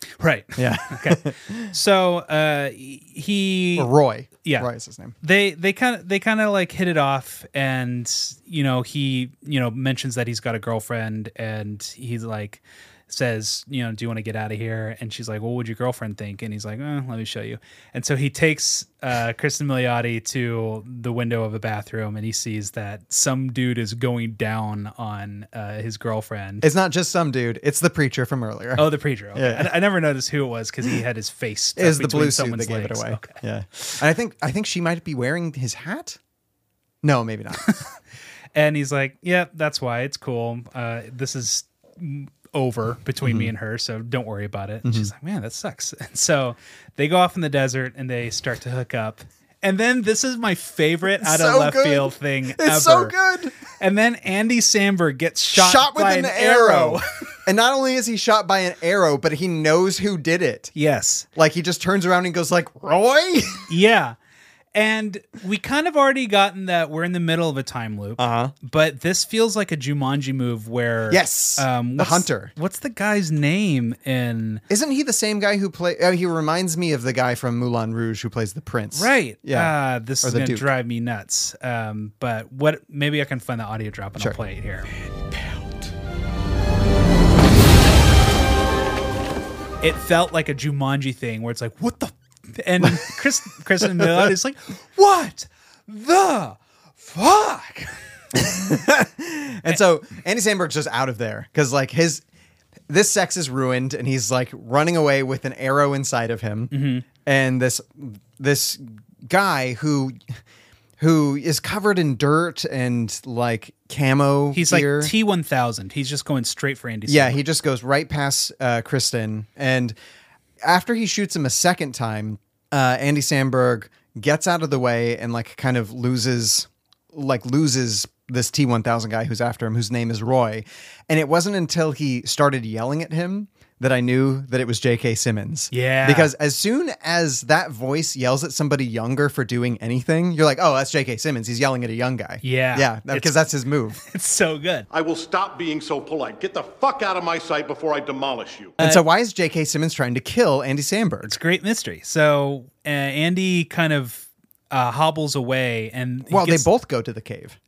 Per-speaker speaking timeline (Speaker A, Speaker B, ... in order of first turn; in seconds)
Speaker A: 0.2-3.9, 4.4-4.7, 5.2-26.7, 28.8-33.4, 38.5-53.1, 53.8-57.0, 60.8-61.3, 63.7-64.2, 64.7-74.6, 78.9-84.9, 89.8-98.0, 106.7-107.0, 114.5-117.4, 135.7-136.3, 142.4-143.4, 144.0-144.9, 148.8-149.0, 151.2-156.7
Speaker B: 0.6-1.7, 3.8-5.2, 26.6-29.7, 31.8-36.2, 37.0-37.8, 43.2-43.5, 44.8-45.1, 51.1-53.6, 55.5-60.7, 61.4-63.7, 68.2-68.5, 71.1-72.5, 74.7-80.7, 85.3-85.6, 92.8-93.1, 93.8-94.3, 98.3-102.2, 102.9-110.4, 111.0-115.1, 117.1-120.0, 120.6-144.0, 148.8-151.4, 156.3-157.6
Speaker C: 144.9-148.8